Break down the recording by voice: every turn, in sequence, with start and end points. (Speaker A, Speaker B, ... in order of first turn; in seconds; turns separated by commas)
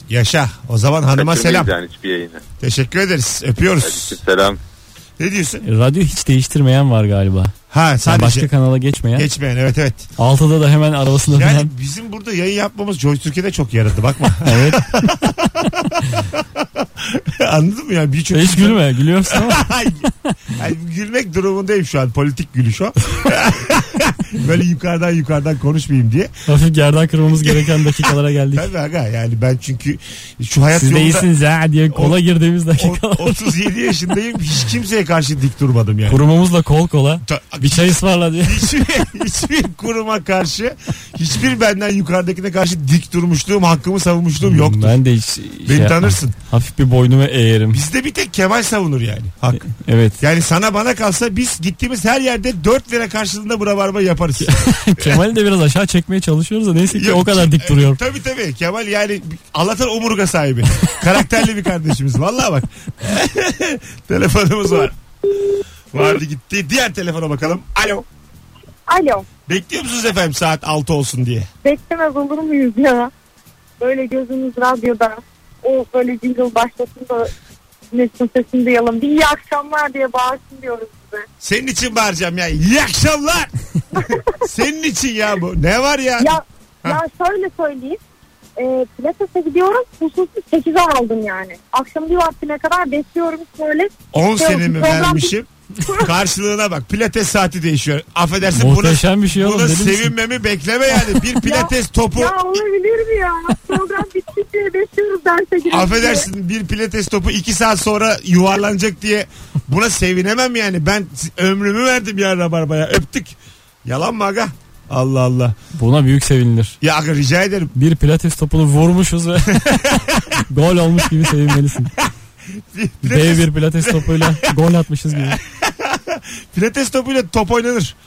Speaker A: 0.1-1.7, Speaker B: 1.1-2.4, Speaker A: 2.6-4.2, Speaker B: 3.8-4.6, Speaker A: 5.2-5.6, Speaker C: 5.6-9.3, Speaker A: 7.7-8.5, Speaker A: 9.1-10.1, Speaker C: 10.2-11.7, Speaker A: 11.2-26.3, Speaker C: 14.4-15.1, Speaker C: 18.3-19.7, Speaker C: 26.5-28.7, Speaker A: 27.4-31.3, Speaker C: 30.7-33.5, Speaker A: 31.9-32.2, Speaker A: 32.8-36.2, Speaker C: 36.1-38.7, Speaker A: 37.2-45.0, Speaker C: 44.4-47.8, Speaker A: 45.7-46.3, Speaker A: 47.7-49.6, Speaker C: 49.5-50.2, Speaker A: 50.2-55.2, Speaker C: 54.4-58.0, Speaker A: 56.9-64.9, Speaker A: 65.9-68.0, Speaker D: 68.9-69.2, Speaker A: 69.5-71.5, Speaker D: 71.6-73.1, Speaker D: 73.8-77.3, Speaker D: 77.9-81.2, Speaker A: 81.4-83.5, Speaker A: 84.4-87.0, Speaker D: 86.2-88.0, Speaker D: 88.6-95.3, Speaker A: 94.1-102.3, Speaker C: 98.5-100.1, Speaker D: 101.3-106.3, Speaker A: 105.7-115.5, Speaker C: 115.7-116.8, Speaker A: 116.8-117.7, Speaker C: 117.7-119.6, Speaker A: 119.5-120.4, Speaker C: 120.5-121.9, Speaker A: 121.0-121.3, Speaker A: 122.0-124.5, Speaker C: 123.0-125.4, Speaker A: 125.1-128.0